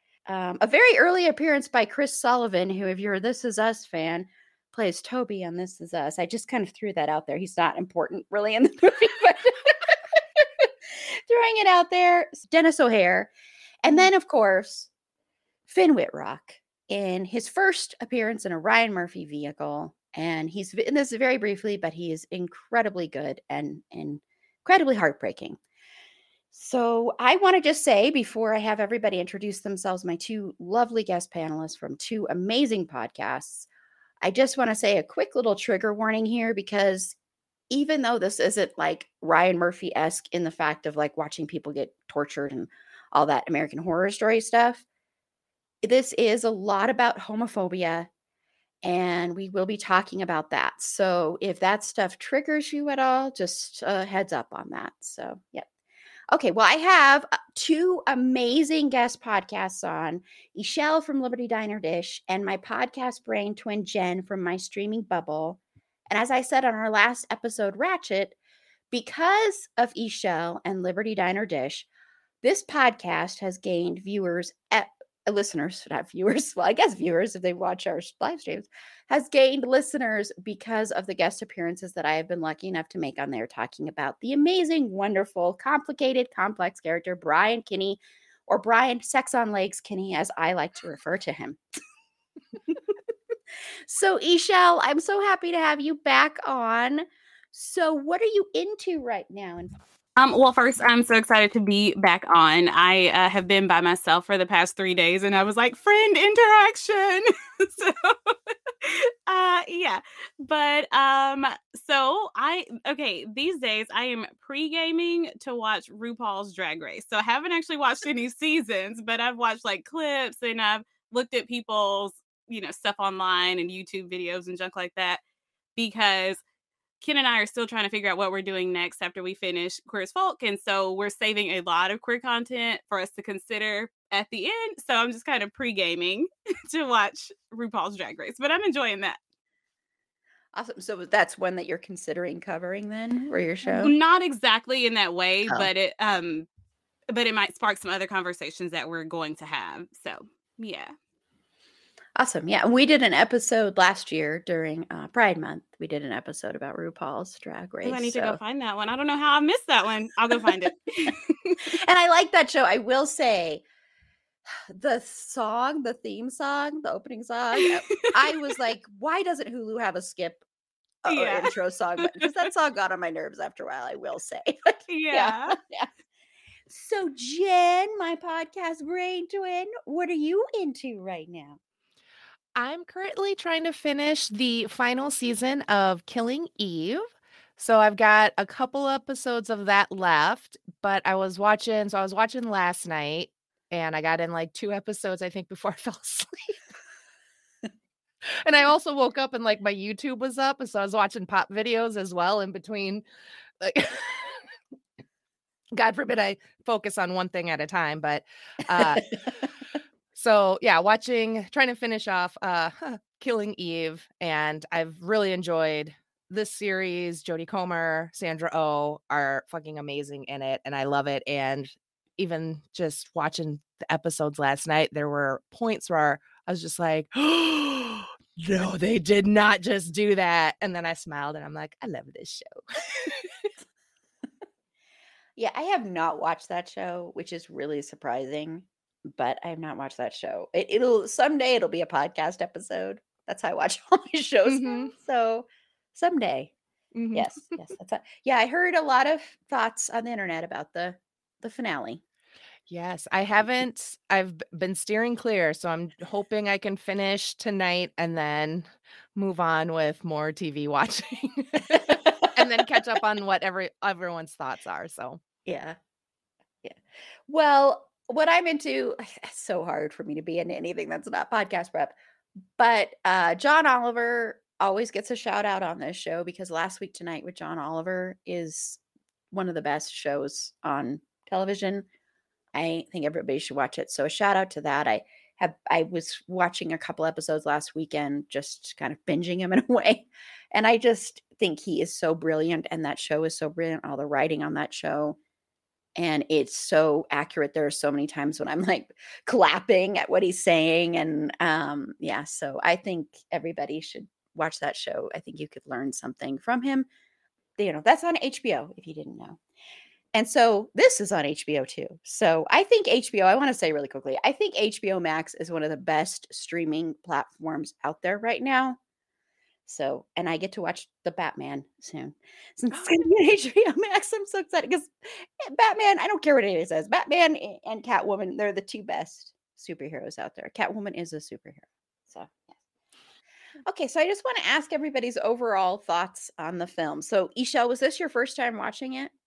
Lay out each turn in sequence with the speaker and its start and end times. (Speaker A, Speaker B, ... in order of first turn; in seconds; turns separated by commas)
Speaker A: 0.3-10.7, Speaker A: 11.3-13.3, Speaker A: 13.8-14.9, Speaker A: 15.7-25.6, Speaker A: 26.5-33.7, Speaker A: 34.2-37.1, Speaker A: 37.7-44.8, Speaker A: 45.8-48.1, Speaker A: 48.8-55.7, Speaker A: 56.3-68.4, Speaker A: 68.9-71.9, Speaker A: 72.4-91.6, Speaker A: 93.9-99.8, Speaker B: 100.2-125.2, Speaker B: 125.8-126.4, Speaker B: 127.0-139.2, Speaker A: 140.5-143.9, Speaker B: 143.7-146.5, Speaker B: 147.1-150.9, Speaker A: 152.2-158.4, Speaker B: 157.8-161.6, Speaker A: 161.6-163.6, Speaker A: 164.7-170.4, Speaker A: 171.0-175.9, Speaker B: 171.1-171.5, Speaker B: 174.9-175.6, Speaker A: 176.7-181.6, Speaker C: 182.6-196.5, Speaker C: 198.4-203.1, Speaker C: 203.6-204.4, Speaker C: 205.7-209.1, Speaker C: 210.1-233.2, Speaker A: 235.4-246.5, Speaker C: 244.5-244.9, Speaker C: 246.9-247.3, Speaker A: 247.1-252.0, Speaker C: 252.7-265.2, Speaker A: 265.5-265.8, Speaker A: 266.6-271.9, Speaker A: 272.6-278.8, Speaker A: 279.3-281.9, Speaker A: 282.5-295.2, Speaker A: 296.0-306.9, Speaker A: 307.6-309.4, Speaker A: 310.1-318.8, Speaker A: 319.7-332.5, Speaker A: 333.7-339.1